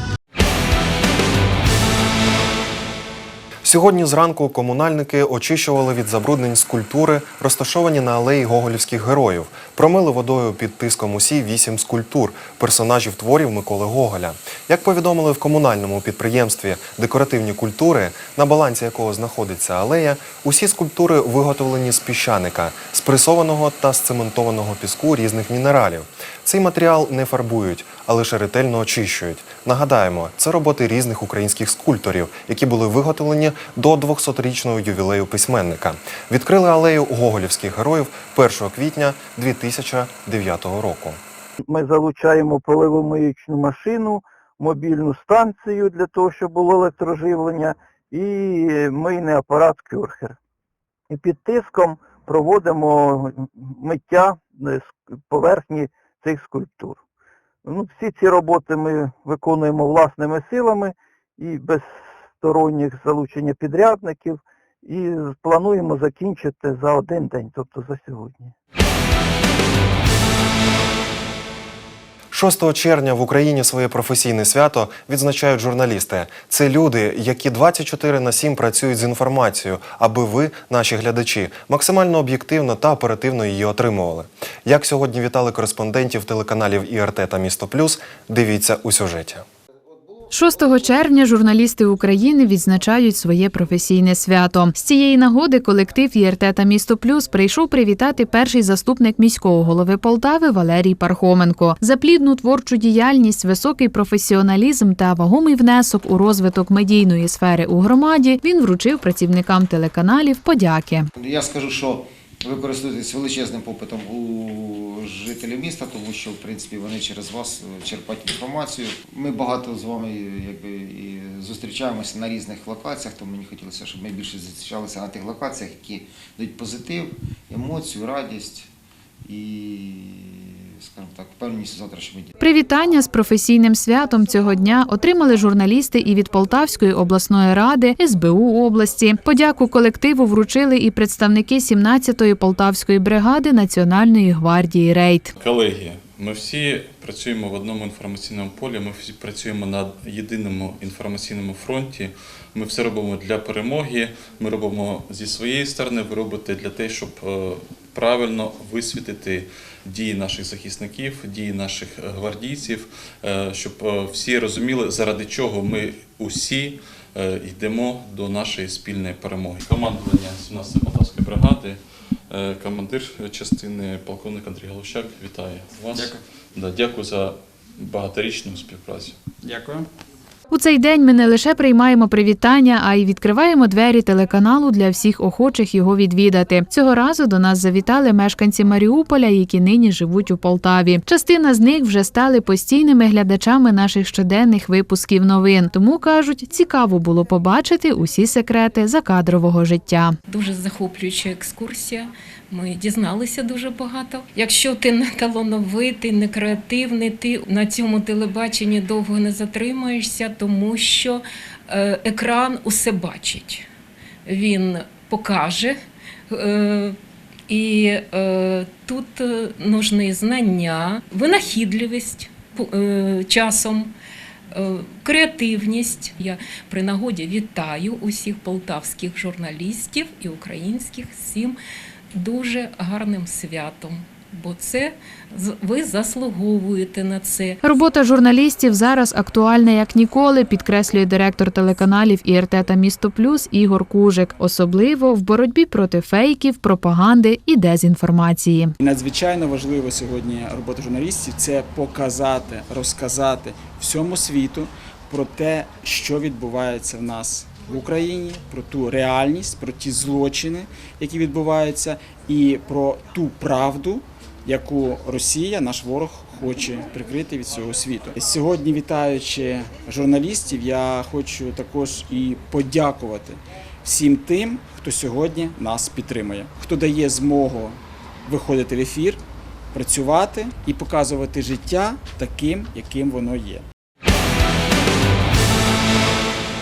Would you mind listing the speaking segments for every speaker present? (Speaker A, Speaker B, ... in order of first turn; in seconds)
Speaker A: 3.6-41.2, 72.3-89.4
Speaker B: 41.7-50.4, 51.1-57.0, 57.6-68.5
Speaker C: 90.3-111.1, 132.4-145.3, 180.5-200.2, 237.6-248.8
Speaker D: 111.2-128.7, 129.2-132.3
Speaker E: 145.4-179.2
Speaker F: 200.3-213.7, 214.3-215.8, 216.3-223.9, 224.5-231.6, 232.1-237.6
Speaker G: 248.8-279.2, 279.7-283.6